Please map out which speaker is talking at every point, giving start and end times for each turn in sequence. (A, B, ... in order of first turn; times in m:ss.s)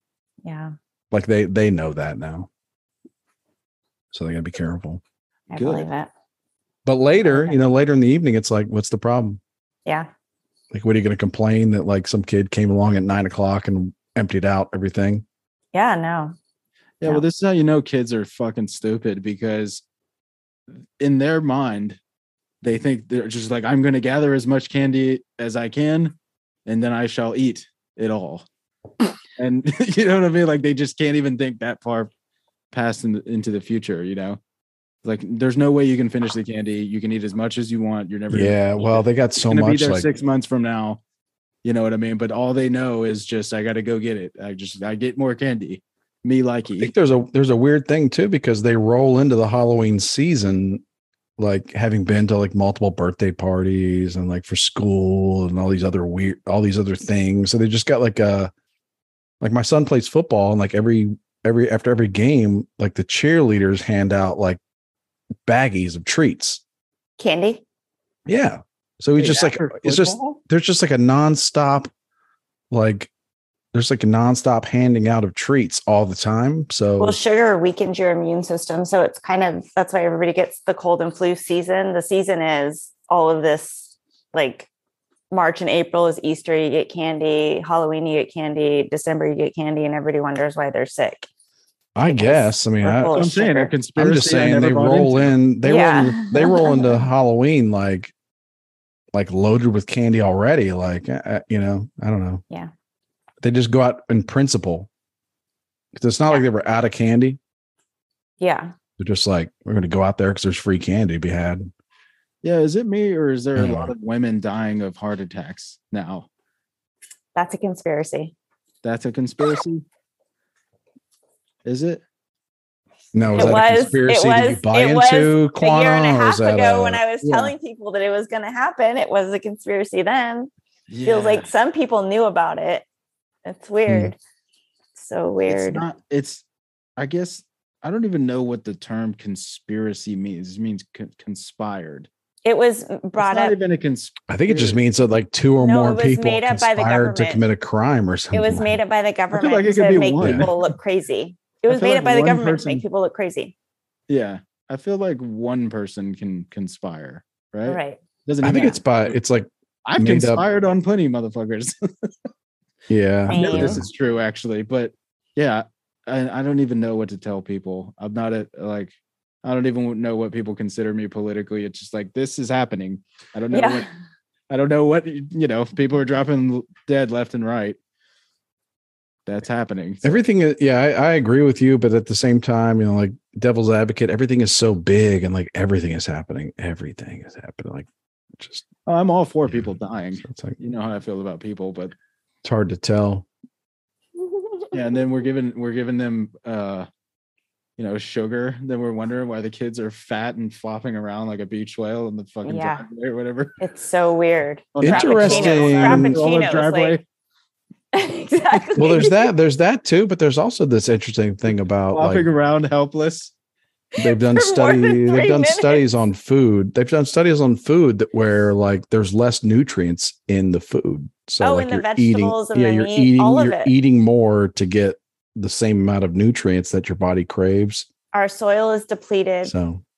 0:00.4-0:00.7 A
0:01.1-0:02.5 B
0:04.1-0:05.0 B
0:05.5-0:06.1 A
0:05.5-0:05.9 C
0:06.8-0:09.4 B
0:07.2-0:07.6 A
0:10.7-0:15.2 B
0:15.7-0:16.3 A
0:17.0-0:19.8 C
0:21.0-0:22.0 C
0:22.6-0:26.1 C
0:26.6-0:28.4 C
0:29.4-0:32.1 C
0:32.7-0:34.4 C
0:35.0-0:41.0 C
0:38.3-0:40.1 B
0:41.6-0:46.9 C
0:46.8-0:50.8 B
0:51.4-0:58.5 B
0:59.4-1:04.6 B
1:05.4-1:06.6 B
1:07.2-1:07.6 A
1:08.2-1:11.9 B
1:09.2-1:10.4 C
1:12.7-1:13.1 B
1:13.7-1:17.2 B
1:17.0-1:24.7 A
1:25.3-1:31.3 A
1:31.9-1:33.2 B
1:32.0-1:33.7 A
1:33.1-1:35.3 C
1:34.0-1:38.1 B
1:35.6-1:37.0 A
1:39.1-1:42.4 B
1:43.4-1:44.9 B
1:45.9-1:47.4 B
1:48.4-1:48.7 A
1:49.0-1:51.7 B
1:52.4-1:56.3 C
1:53.6-1:53.9 B
1:57.3-1:58.3 A
1:58.8-1:59.8 C
2:01.6-2:02.0 C
2:03.1-2:07.0 B
2:03.2-2:03.6 C
2:03.3-2:10.5 A
2:07.2-2:07.5 C
2:10.9-2:11.5 C
2:11.0-2:12.8 A
2:13.4-2:14.2 A
2:13.9-2:14.1 B
2:15.0-2:15.8 A
2:15.5-2:16.4 C
2:17.0-2:22.1 C
2:22.4-2:23.6 A
2:23.2-2:24.8 C
2:24.3-2:28.8 B
2:25.6-2:27.4 A
2:28.3-2:33.5 A
2:29.3-2:30.6 C
2:30.2-2:30.5 B
2:31.7-2:32.8 C
2:34.1-2:39.1 C
2:37.6-2:38.0 A
2:38.4-2:40.4 B
2:39.8-2:42.1 C
2:42.9-2:43.8 B
2:43.3-2:43.8 A
2:43.3-2:48.9 C
2:49.4-2:53.9 C
2:53.5-2:53.9 A
2:54.5-2:57.8 C
2:59.2-3:00.2 C
3:00.0-3:08.6 B
3:08.8-3:11.9 C
3:09.5-3:10.6 B
3:12.4-3:13.3 B
3:14.7-3:16.9 C
3:17.8-3:23.6 C
3:22.4-3:22.8 A
3:23.6-3:27.0 A
3:24.7-3:27.0 C
3:24.8-3:26.2 B
3:27.9-3:29.2 A
3:28.8-3:32.3 B
3:31.9-3:33.3 C
3:34.0-3:35.8 A
3:34.0-3:47.9 B
3:41.4-3:43.7 A
3:48.1-3:49.5 A
3:49.4-3:49.8 B